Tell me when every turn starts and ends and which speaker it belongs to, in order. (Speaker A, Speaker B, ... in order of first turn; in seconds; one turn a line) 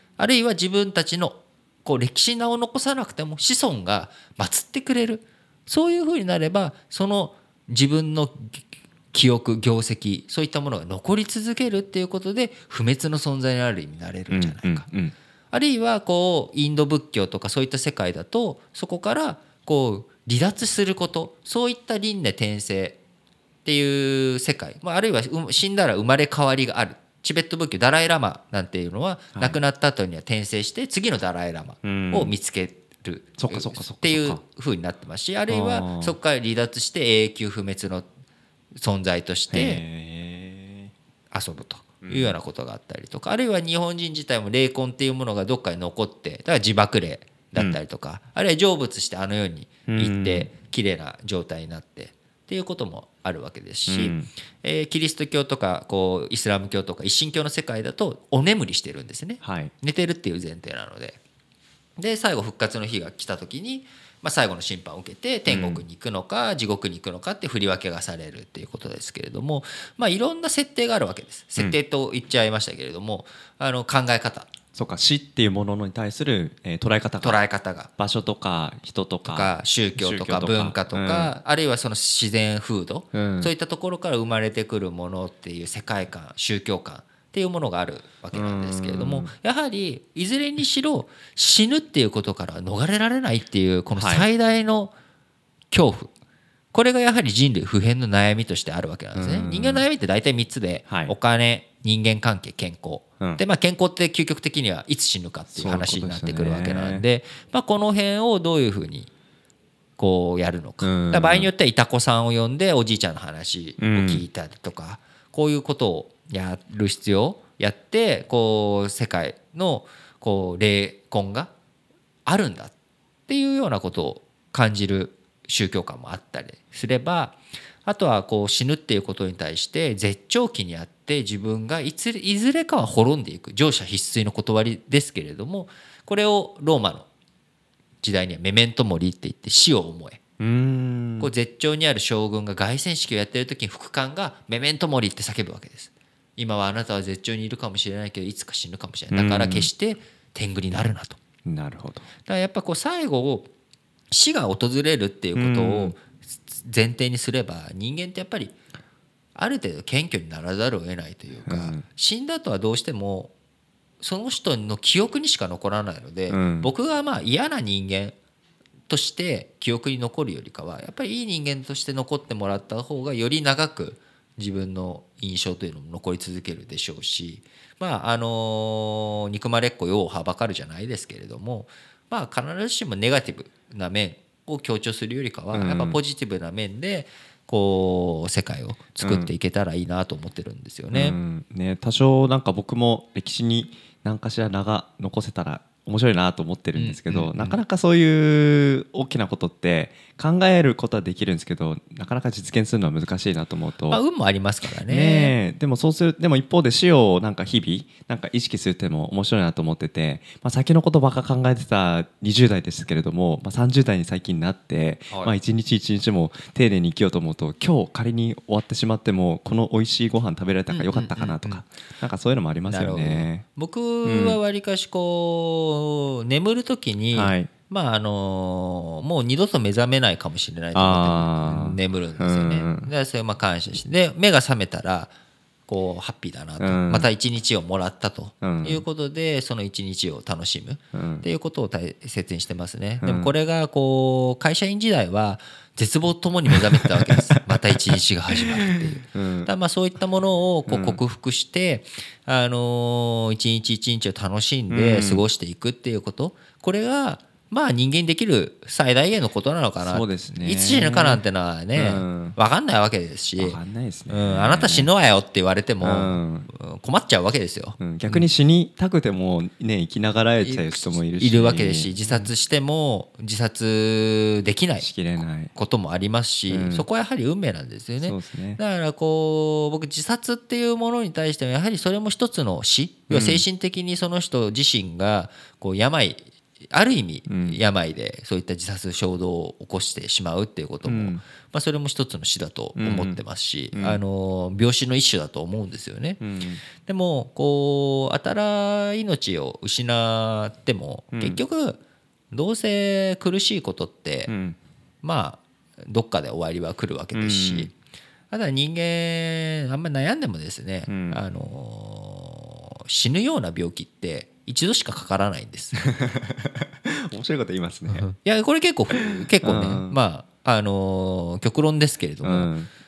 Speaker A: 0.2-14.9
Speaker B: 14.3-15.1
Speaker A: 15.5-23.0
Speaker A: 23.6-38.1
Speaker B: 31.8-32.3
Speaker B: 33.4-34.4
Speaker B: 35.5-36.2
Speaker A: 38.8-39.8
Speaker B: 39.5-40.9
Speaker A: 41.3-61.2
Speaker B: 42.0-42.4
Speaker B: 49.9-50.5
Speaker B: 53.9-54.3
Speaker B: 59.4-59.7
Speaker A: 62.0-74.5
Speaker B: 65.5-65.8
Speaker B: 74.7-77.4
Speaker A: 77.2-77.9
Speaker B: 78.0-81.3
Speaker A: 79.2-94.9
Speaker B: 83.1-83.5
Speaker B: 88.3-89.3
Speaker B: 94.0-94.2
Speaker A: 95.7-96.1
Speaker A: 96.7-109.1
Speaker B: 99.1-99.8
Speaker B: 105.5-107.0
Speaker A: 110.0-121.5
Speaker B: 110.8-111.5
Speaker B: 113.8-114.2
Speaker A: 122.2-122.7
Speaker A: 123.3-137.1
Speaker A: 138.0-140.2
Speaker B: 140.4-141.3
Speaker A: 141.2-151.2
Speaker B: 149.1-149.7
Speaker B: 151.4-152.1
Speaker A: 152.2-153.5
Speaker A: 154.1-158.5
Speaker B: 155.3-155.9
Speaker A: 159.3-163.3
Speaker B: 161.4-161.8
Speaker A: 164.0-168.1
Speaker B: 166.3-166.7
Speaker A: 168.9-191.2
Speaker B: 185.5-186.0
Speaker B: 189.0-189.3
Speaker B: 190.9-204.0
Speaker A: 196.8-197.6
Speaker A: 203.9-205.4
Speaker B: 204.7-223.4
Speaker A: 220.7-221.6
Speaker A: 222.7-235.1
Speaker B: 224.0-224.4
Speaker B: 227.1-227.5
Speaker B: 230.7-232.9
Speaker A: 235.7-268.3
Speaker B: 236.6-237.1
Speaker B: 238.4-238.8
Speaker B: 240.9-241.2
Speaker B: 243.0-243.3
Speaker B: 246.5-247.9
Speaker B: 248.7-249.5
Speaker B: 250.7-251.0
Speaker B: 254.7-255.2
Speaker B: 259.8-261.2
Speaker B: 261.8-262.4
Speaker B: 263.4-264.9
Speaker B: 265.8-266.5
Speaker B: 267.8-272.3
Speaker A: 270.4-274.9
Speaker B: 274.8-275.5
Speaker A: 275.5-296.2
Speaker B: 276.5-276.9
Speaker B: 278.0-278.6
Speaker B: 283.1-283.4
Speaker B: 287.3-287.6
Speaker B: 290.9-291.2
Speaker B: 292.8-293.2
Speaker B: 293.7-294.0
Speaker B: 296.2-296.6
Speaker A: 296.8-301.8
Speaker B: 301.1-301.4
Speaker A: 302.3-304.3
Speaker B: 304.3-304.6
Speaker A: 305.0-307.7
Speaker B: 307.1-307.7
Speaker A: 308.3-315.8
Speaker B: 310.9-311.2
Speaker B: 315.8-318.1
Speaker A: 317.9-322.5
Speaker B: 319.0-319.9
Speaker B: 322.2-322.7